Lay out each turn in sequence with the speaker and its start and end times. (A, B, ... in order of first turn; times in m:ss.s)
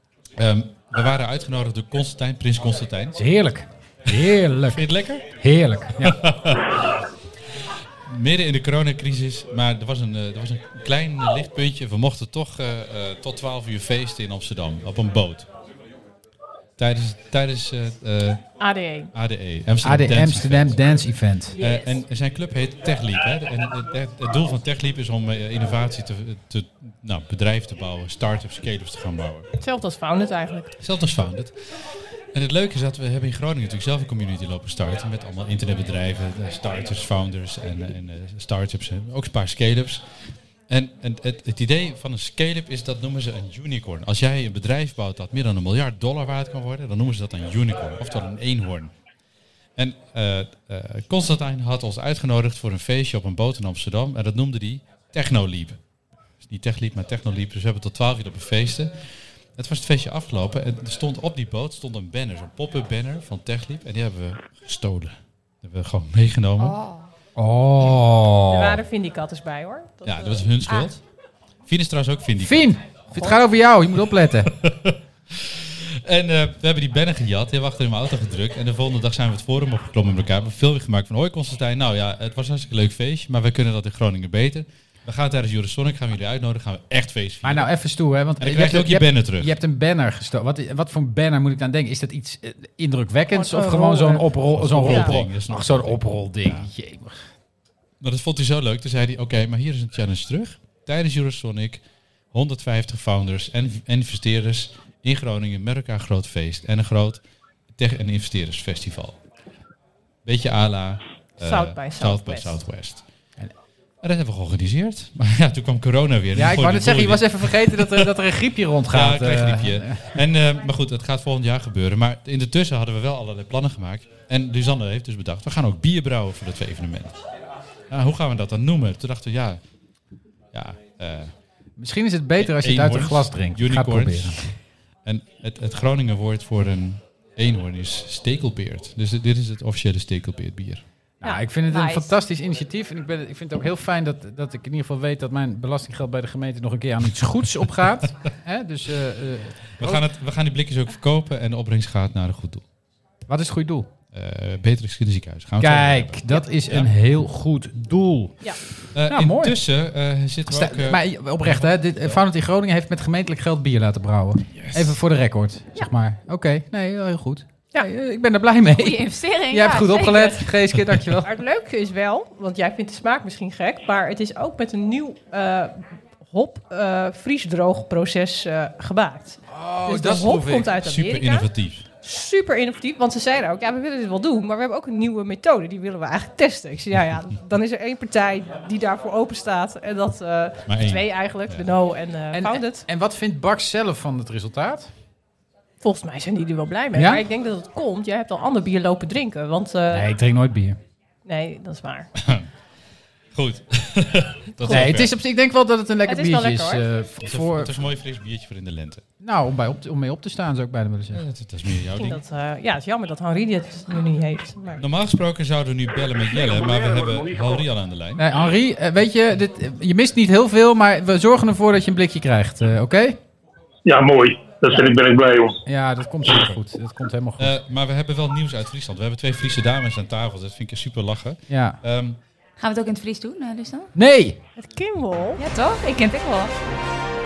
0:00.4-0:03.2 A
0:03.2-0:06.2 B
0:04.7-0:05.3 A
0:06.0-0:06.8 A
0:08.1-0:15.5 A
0:16.8-0:18.5 A
0:18.6-0:19.1 C
0:19.1-0:20.9 A
0:19.8-0:21.6 B
0:21.6-0:29.5 A
0:29.6-0:30.8 C
0:30.8-0:31.6 A
0:32.3-0:40.0 A
0:40.7-0:48.9 A
0:49.8-0:55.8 A
0:56.4-1:06.8 A
1:06.6-1:07.1 D
1:07.4-1:08.8 B
1:08.5-1:10.4 C
1:10.0-1:11.0 A
1:11.7-1:12.8 A
1:12.4-1:14.5 B
1:14.5-1:27.7 A
1:27.4-1:37.3 B
1:28.4-1:29.5 A
1:33.3-1:34.2 C
1:34.4-1:36.7 A
1:34.9-1:35.2 C
1:38.0-1:41.8 A
1:42.3-1:47.2 A
1:47.8-1:49.2 A
1:50.2-1:53.0 A
1:51.4-1:52.5 C
1:54.0-1:58.1 A
1:56.3-2:00.2 B
1:58.9-2:07.2 A
2:07.9-2:09.6 A
2:10.5-2:11.3 A
2:11.8-2:14.4 B
2:12.4-2:14.6 A
2:15.1-2:20.8 A
2:21.2-2:30.0 B
2:21.7-2:22.1 D
2:29.8-2:32.6 A
2:33.3-2:33.9 B
2:34.1-2:36.9 A
2:35.6-2:38.5 B
2:38.9-2:42.2 A
2:39.1-2:39.6 B
2:40.5-2:51.3 B
2:44.6-2:45.0 A
2:48.7-2:50.4 D
2:51.2-3:01.5 C
2:59.5-3:00.7 B
3:00.8-3:01.9 A
3:02.0-3:12.8 C
3:10.7-3:11.7 A
3:12.3-3:14.9 B
3:15.8-3:20.0 C
3:16.9-3:17.2 B
3:19.9-3:20.8 B
3:21.2-3:22.1 C
3:22.2-3:22.5 A
3:23.4-3:25.1 A
3:24.6-3:24.9 C
3:24.7-3:27.8 B
3:26.1-3:26.9 C
3:27.2-3:29.0 A
3:29.2-3:31.2 B
3:31.1-3:32.2 A
3:32.0-3:34.8 C
3:34.8-3:38.3 A
3:36.3-3:37.6 E
3:38.2-3:43.2 B
3:43.9-3:45.6 E
3:44.7-3:45.0 B
3:45.7-3:47.5 B
3:47.4-3:52.2 A
3:51.5-3:51.8 B
3:52.6-3:53.9 D
3:54.0-3:54.4 B
3:54.6-3:55.4 C
3:55.4-3:56.5 D